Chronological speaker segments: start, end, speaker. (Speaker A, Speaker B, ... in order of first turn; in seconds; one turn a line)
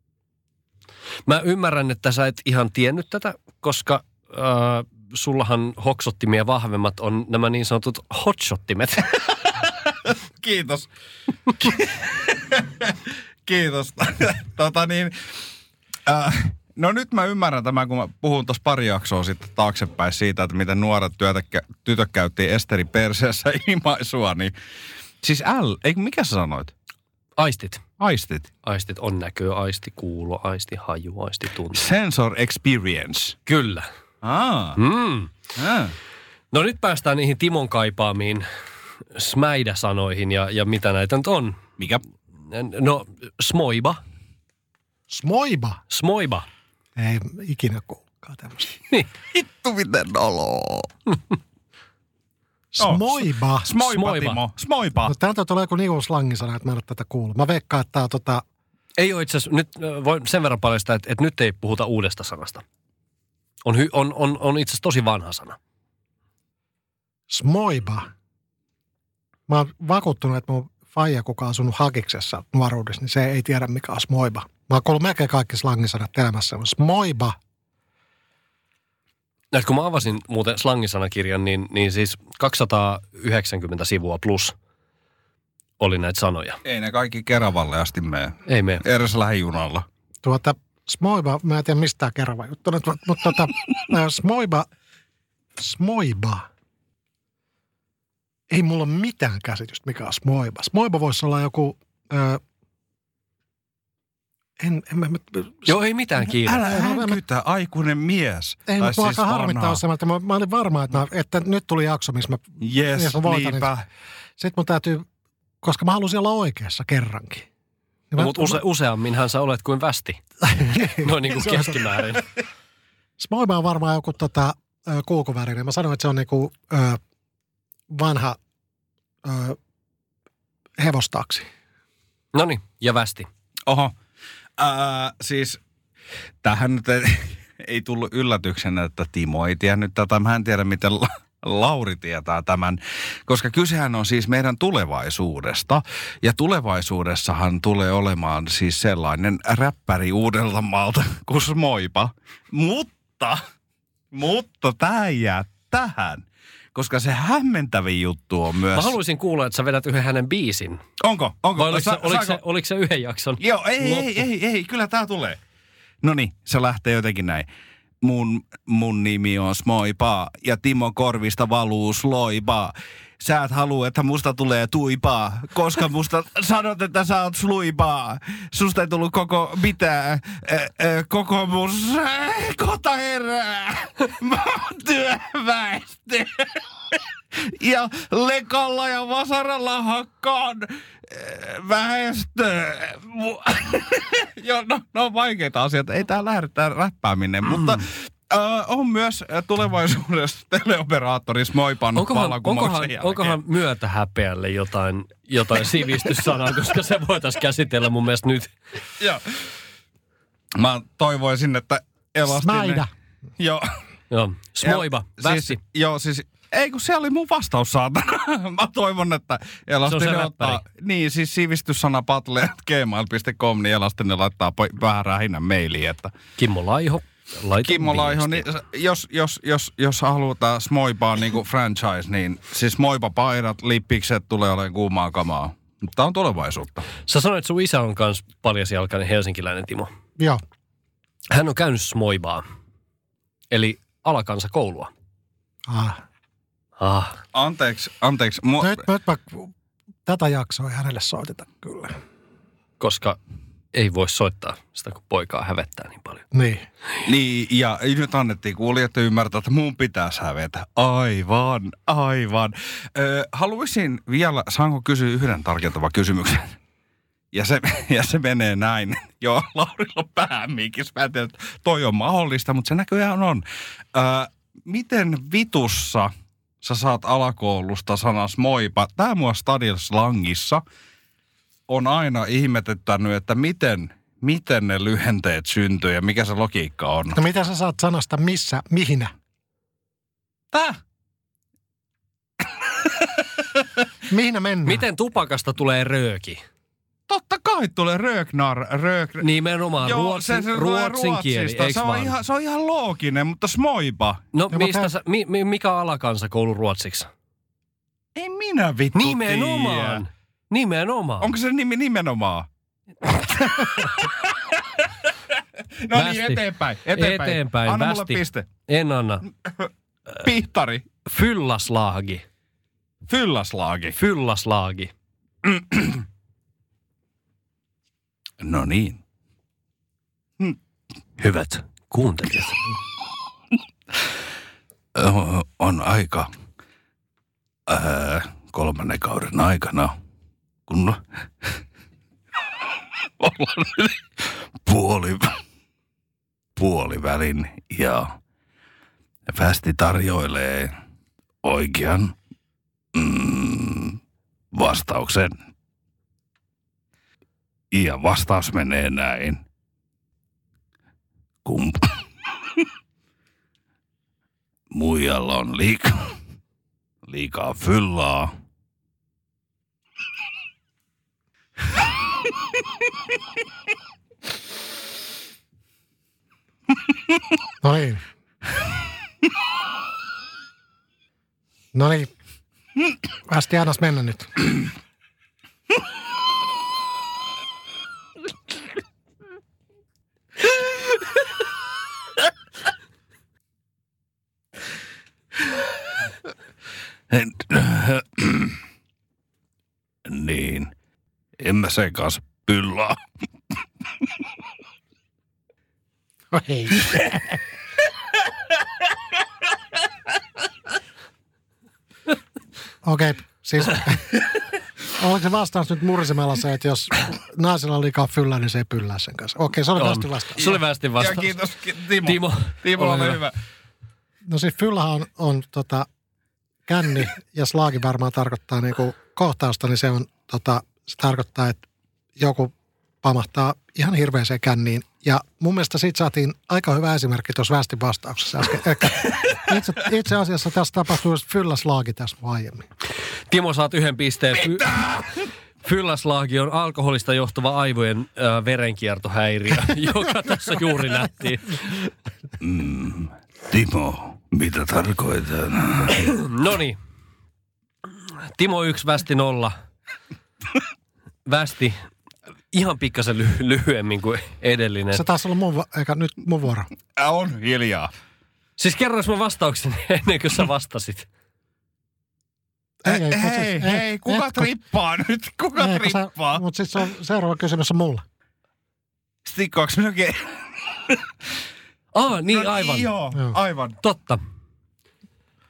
Speaker A: 1.2-9.2
Speaker B: 9.7-10.9
Speaker B: 11.6-15.1
Speaker B: 16.1-24.5
Speaker B: 25.2-26.7
Speaker A: 27.4-27.8
Speaker B: 28.0-28.5
Speaker A: 28.6-31.8
Speaker B: 31.7-33.4
Speaker A: 33.5-33.9
Speaker B: 34.2-34.8
Speaker A: 34.8-35.3
Speaker B: 35.6-35.9
Speaker A: 36.5-38.5
Speaker A: 39.1-41.6
Speaker A: 42.5-44.0
Speaker C: 45.1-45.8
Speaker A: 45.9-46.5
Speaker C: 47.0-48.7
Speaker B: 49.3-50.9
Speaker C: 52.7-53.7
Speaker B: 52.8-55.1
Speaker A: 53.8-54.4
Speaker C: 55.0-58.4
Speaker A: 59.0-62.6
Speaker A: 63.6-65.6
Speaker C: 67.3-68.1
Speaker C: 69.5-77.3
Speaker A: 79.5-84.5
Speaker A: 85.8-86.6
Speaker B: 86.6-89.8
Speaker A: 88.5-88.8
Speaker C: 90.2-94.7
Speaker C: 95.6-96.5
Speaker C: 98.5-102.4
Speaker C: 104.6-105.8
Speaker A: 105.7-106.6
Speaker B: 106.3-109.8
Speaker C: 106.6-107.2
Speaker C: 108.7-113.7
Speaker B: 112.6-113.8
Speaker C: 114.4-115.0
Speaker C: 115.6-117.5
Speaker C: 118.1-118.6
Speaker A: 118.2-120.2
Speaker C: 120.4-122.2
Speaker A: 120.9-122.2
Speaker C: 123.2-127.0
Speaker C: 127.9-128.4
Speaker C: 129.2-129.6
Speaker C: 130.8-131.4
Speaker A: 132.3-133.3
Speaker B: 133.7-133.9
Speaker B: 134.6-135.6
Speaker B: 136.4-153.4
Speaker B: 154.1-158.9
Speaker A: 158.7-160.8
Speaker B: 161.0-162.4
Speaker A: 161.6-164.2
Speaker B: 163.4-165.4
Speaker B: 166.0-167.5
Speaker B: 168.0-203.4
Speaker A: 201.9-208.5
Speaker B: 210.6-212.8
Speaker C: 212.3-212.9
Speaker B: 213.4-213.7
Speaker A: 214.1-215.6
Speaker B: 214.6-226.1
Speaker A: 219.8-220.6
Speaker A: 226.4-228.4
Speaker B: 227.6-236.9
Speaker A: 237.1-239.9
Speaker A: 241.3-242.4
Speaker A: 243.5-244.9
Speaker C: 245.7-246.0
Speaker A: 246.8-247.2
Speaker B: 247.3-248.8
Speaker C: 248.6-249.5
Speaker C: 250.1-252.0
Speaker A: 252.8-253.2
Speaker A: 253.7-256.2
Speaker C: 256.3-256.6
Speaker B: 257.0-266.6
Speaker B: 267.3-276.1
Speaker B: 276.6-280.6
Speaker B: 281.7-287.2
Speaker C: 287.1-289.1
Speaker B: 290.5-290.8
Speaker C: 294.1-294.8
Speaker A: 294.6-296.4
Speaker B: 297.1-299.2
Speaker A: 299.2-302.1
Speaker B: 299.8-304.2
Speaker A: 304.3-307.1
Speaker C: 304.5-304.9
Speaker B: 308.1-310.0
Speaker A: 308.9-311.3
Speaker B: 311.2-312.5
Speaker B: 313.1-315.1
Speaker B: 315.8-318.5
Speaker A: 315.9-319.2
Speaker B: 319.6-320.8
Speaker A: 321.1-322.2
Speaker B: 323.1-323.9
Speaker A: 323.9-324.9
Speaker B: 325.4-326.0
Speaker B: 328.4-329.0
Speaker A: 331.2-332.6
Speaker B: 334.9-336.3
Speaker B: 337.7-339.9
Speaker B: 340.7-341.5
Speaker B: 343.2-345.3
Speaker B: 346.6-348.1
Speaker B: 349.3-350.7
Speaker B: 351.4-352.1
Speaker B: 352.9-354.0
Speaker B: 354.5-355.4
Speaker B: 357.7-359.4
Speaker B: 361.4-362.0
Speaker B: 364.7-366.1
Speaker B: 367.1-368.3
Speaker C: 377.6-378.0
Speaker C: 381.7-382.1
Speaker C: 383.3-384.5
Speaker B: 397.1-398.6
Speaker B: 400.1-400.7
Speaker B: 401.4-403.0
Speaker C: 406.3-407.2
Speaker C: 412.8-414.2
Speaker C: 415.0-420.5
Speaker A: 419.8-421.3
Speaker B: 420.4-423.3
Speaker A: 422.0-423.2
Speaker C: 424.3-425.9
Speaker C: 426.7-431.6
Speaker C: 432.2-442.6
Speaker A: 443.3-444.9
Speaker B: 444.4-445.1
Speaker A: 445.6-451.9
Speaker B: 452.4-456.1
Speaker A: 456.0-456.8
Speaker A: 458.3-459.5
Speaker A: 461.2-461.8
Speaker A: 462.5-465.1
Speaker C: 464.9-466.7
Speaker B: 467.0-467.9
Speaker A: 468.6-471.1
Speaker C: 472.8-474.5
Speaker B: 472.9-476.4
Speaker C: 475.5-478.0
Speaker B: 479.2-481.0
Speaker A: 481.9-482.9
Speaker B: 482.3-483.8
Speaker A: 483.8-484.2